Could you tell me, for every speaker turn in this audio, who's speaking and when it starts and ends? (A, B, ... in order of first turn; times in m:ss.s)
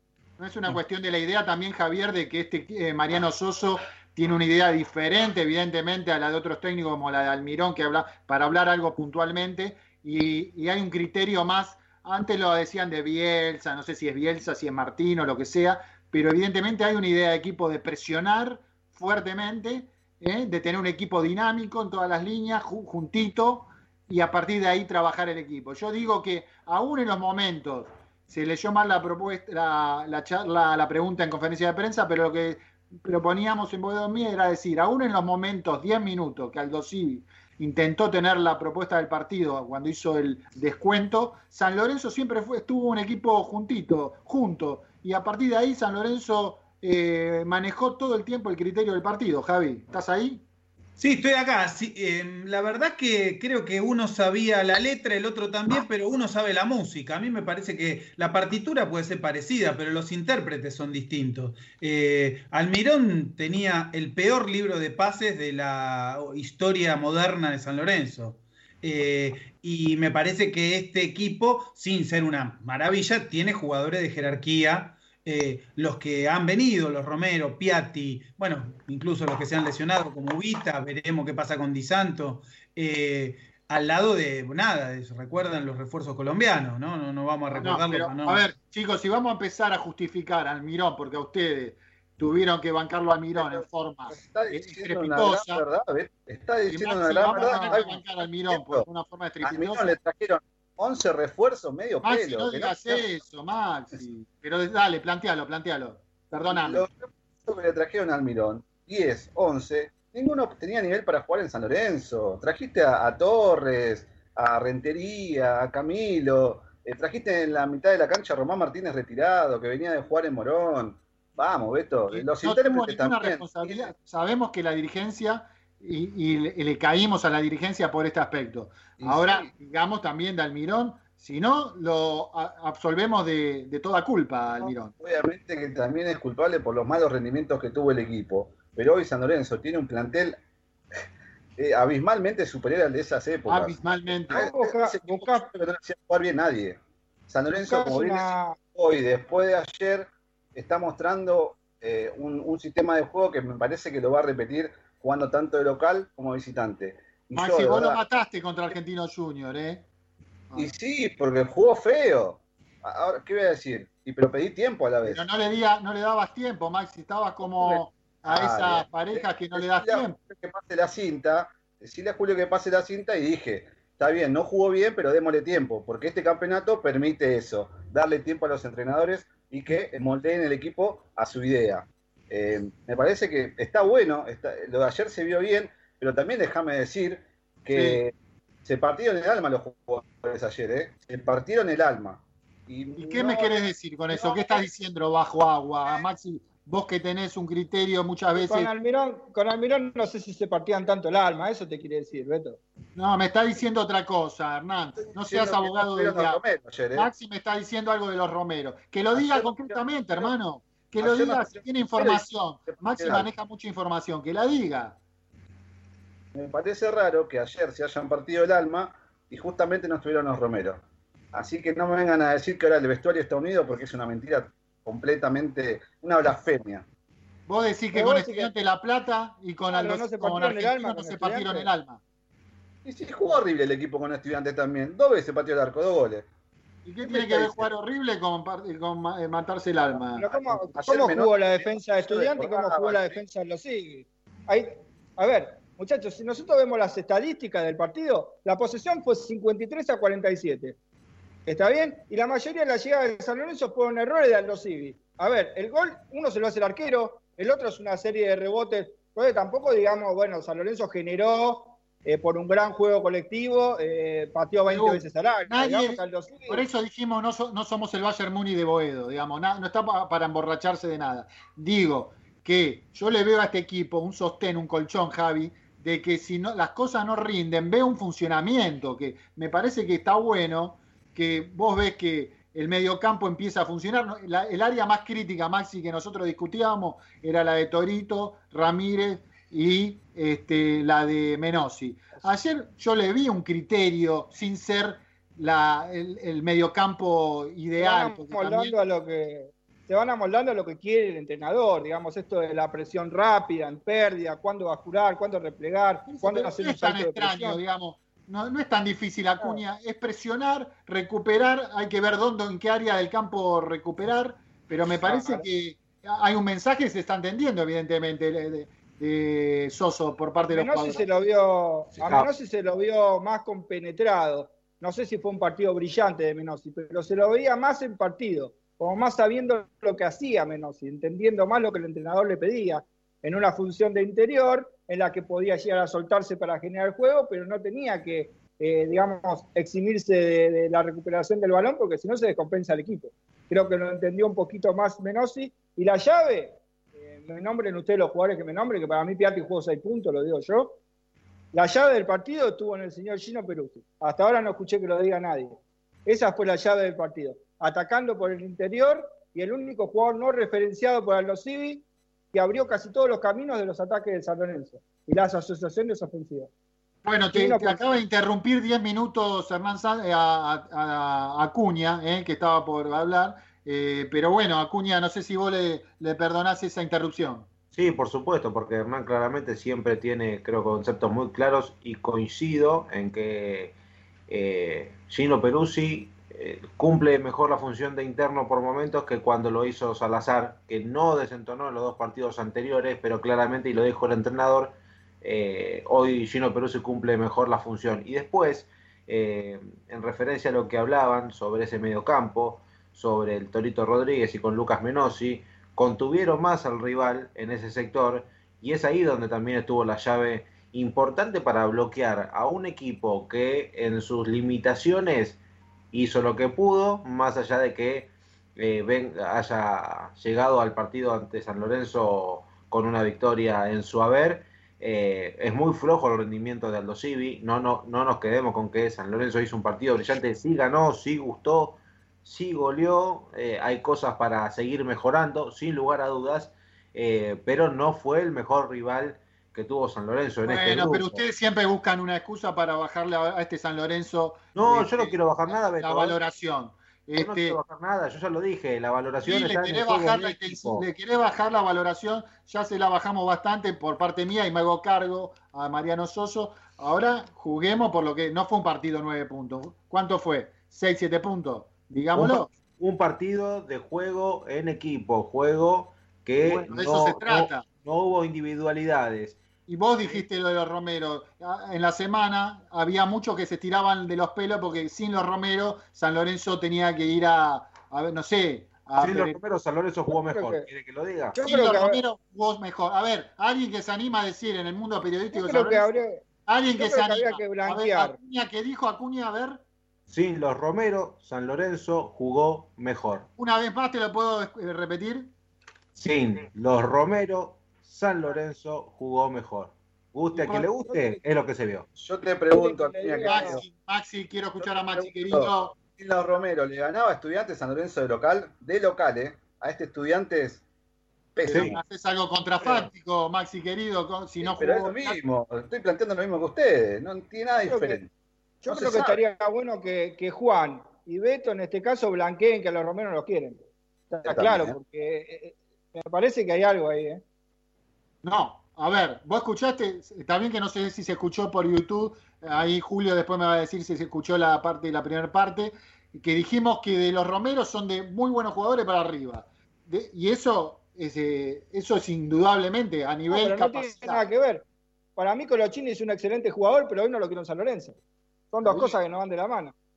0:00.4-0:50.4 A
0:51.0-1:28.4 B
1:27.5-1:35.6 A
1:33.4-1:38.9 C
1:36.7-1:40.0 A
1:37.3-1:37.6 D
1:39.4-1:43.0 C
1:42.0-1:46.9 A
1:46.5-2:03.9 C
2:02.1-2:14.9 A
2:09.0-2:09.5 C
2:14.6-2:20.4 C
2:21.6-2:38.0 C
2:23.5-2:24.5 A
2:24.4-2:25.5 D
2:27.6-2:28.6 D
2:37.4-2:39.8 A
2:40.6-2:45.2 C
2:45.0-2:50.2 A
2:47.4-3:08.1 C
3:07.7-3:08.0 A
3:08.6-3:13.6 C
3:13.0-3:18.7 A
3:14.1-3:14.6 C
3:18.4-3:22.6 D
3:23.0-3:26.4 A
3:25.0-3:27.1 C
3:26.9-3:35.0 A
3:29.1-3:30.3 C
3:31.0-3:33.3 C
3:36.3-3:46.9 C
3:47.5-3:52.0 A
3:47.9-3:48.5 D
3:49.7-3:51.7 D
3:52.8-3:56.3 C
3:56.9-4:00.3 A
3:57.0-3:57.7 C
4:00.1-4:10.8 D
4:00.8-4:03.2 C
4:11.5-4:26.6 D
4:24.7-4:58.8 A
4:57.8-5:07.6 D
5:06.1-5:21.1 A
5:15.0-5:15.5 D
5:20.4-5:50.8 D
5:51.5-6:06.5 D
6:07.0-6:17.5 A
6:07.3-6:08.0 D
6:17.7-6:23.8 E
6:24.3-6:55.4 E
6:55.9-7:21.2 E
7:20.4-7:25.2 A
7:24.6-7:26.2 E
7:25.8-7:27.6 A
7:27.2-7:30.8 E
7:29.2-7:42.5 A
7:42.2-7:49.4 E
7:46.4-7:47.6 A
7:49.7-7:59.4 A
7:59.0-8:01.4 E
8:00.1-8:00.7 D
8:01.3-8:02.0 D
8:01.4-8:05.9 A
8:05.3-8:08.2 D
8:06.5-8:09.6 A
8:10.1-8:13.3 E
8:13.4-8:15.3 A
8:16.0-8:21.9 E
8:22.0-8:23.6 C
8:22.5-8:23.6 D
8:23.2-8:25.8 A
8:24.6-8:30.6 C
8:31.4-8:31.8 C
8:31.4-8:35.2 A
8:34.4-8:38.1 C
8:37.7-8:38.0 D
8:38.6-8:47.2 D
8:38.7-8:39.2 C
8:44.2-8:44.8 C
8:48.2-9:04.2 A
9:03.3-9:04.6 D
9:05.2-9:08.0 D
9:08.5-9:09.7 D
9:08.6-9:09.0 A